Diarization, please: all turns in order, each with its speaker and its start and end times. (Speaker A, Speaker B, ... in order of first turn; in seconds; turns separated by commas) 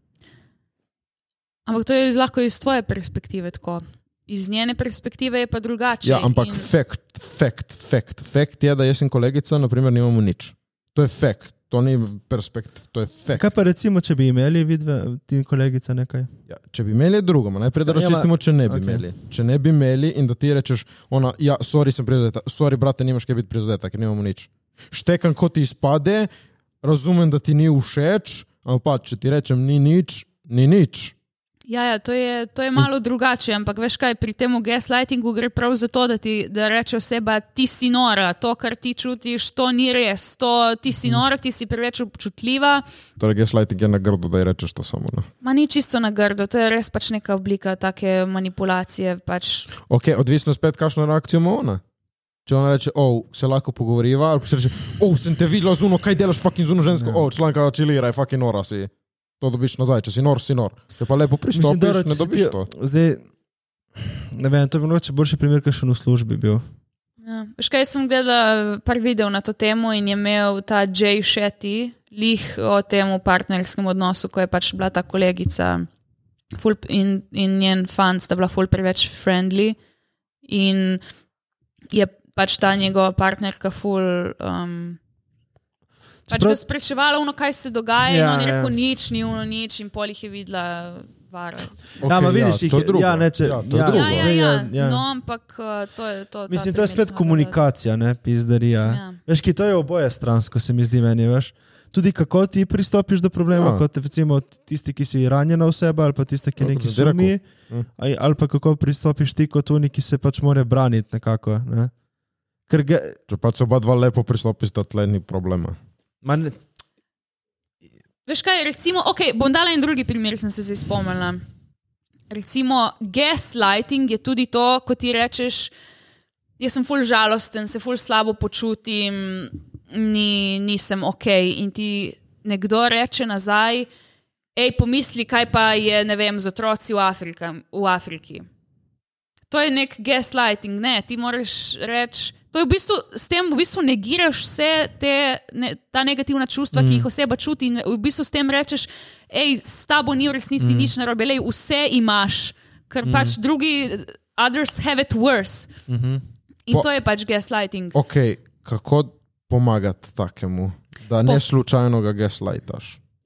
Speaker A: 1.6-6.7, Speaker B: 6.0-13.4, Speaker C: 13.3-16.3, Speaker B: 16.5-26.3, Speaker C: 17.9-19.0, Speaker B: 26.8-31.1, Speaker A: 31.7-42.8, Speaker B: 43.2-45.3, Speaker A: 45.4-49.7, Speaker B: 49.8-51.8, Speaker B: 52.5-62.6, Speaker C: 56.9-57.2, Speaker C: 61.5-63.2, Speaker C: 63.9-66.6, Speaker A: 67.2-75.9, Speaker A: 76.5-79.8, Speaker A: 80.4-81.0, Speaker A: 81.9-85.0, Speaker C: 86.3-86.6, Speaker A: 86.3-91.8, Speaker C: 88.0-88.7, Speaker B: 92.0-94.3, Speaker C: 92.0-95.0, Speaker A: 93.9-97.6, Speaker C: 96.5-107.4, Speaker A: 98.7-99.2, Speaker B: 103.5-103.8, Speaker B: 106.6-107.9, Speaker C: 108.0-111.9, Speaker C: 112.7-113.2, Speaker B: 113.3-115.8, Speaker C: 116.2-116.6, Speaker A: 118.2-121.4, Speaker A: 122.3-125.7, Speaker A: 126.6-133.9, Speaker A: 134.6-138.4, Speaker A: 139.5-155.7, Speaker C: 146.7-147.1, Speaker C: 150.6-150.9, Speaker C: 155.9-156.2, Speaker A: 156.7-157.9, Speaker B: 157.9-163.0